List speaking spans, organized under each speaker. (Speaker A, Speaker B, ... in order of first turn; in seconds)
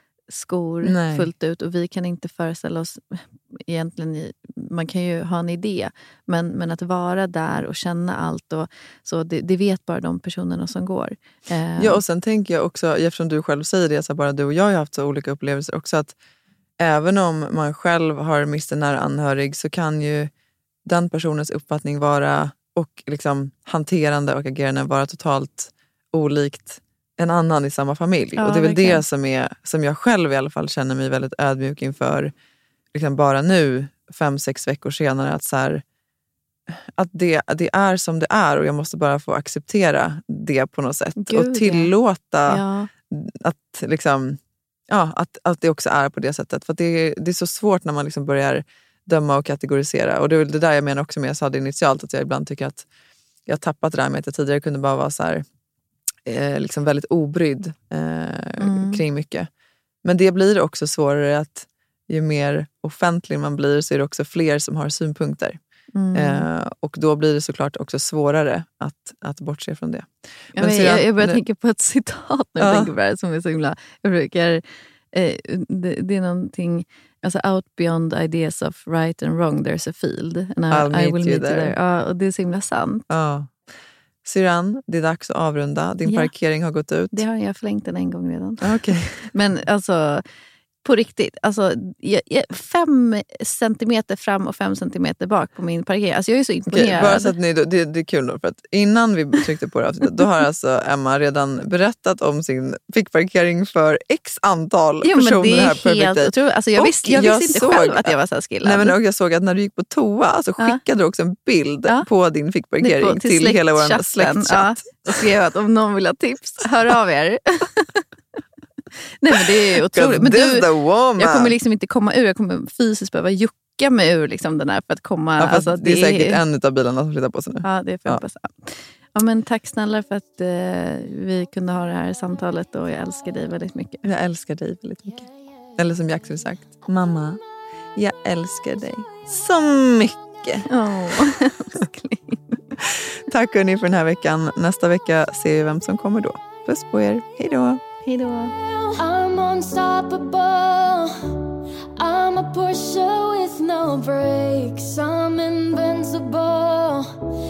Speaker A: 0.3-12.0, 28.4-29.0, 41.2-41.9, 42.5-42.9, 58.6-59.0, 65.9-66.5, 70.5-74.6, 75.1-83.1, 86.0-86.3, 87.1-90.2, 90.8-97.3, 105.0-109.0, 112.8-118.0, 119.2-126.4, 127.6-134.1, 140.7-142.6, 148.0-148.5
Speaker B: 0.8-1.3, 11.8-16.1, 16.8-20.3, 20.8-32.3, 32.9-35.8, 36.9-52.9, 53.5-55.4, 56.2-59.5, 60.0-65.6, 66.1-71.4, 72.6-72.9, 80.7-81.7, 83.1-83.6, 84.2-87.2, 88.6-89.3, 96.7-115.2, 119.9-121.5, 125.4-128.2, 134.0-137.4, 137.9-140.7, 142.8-147.8
Speaker C: 149.0-151.0, 152.0-157.0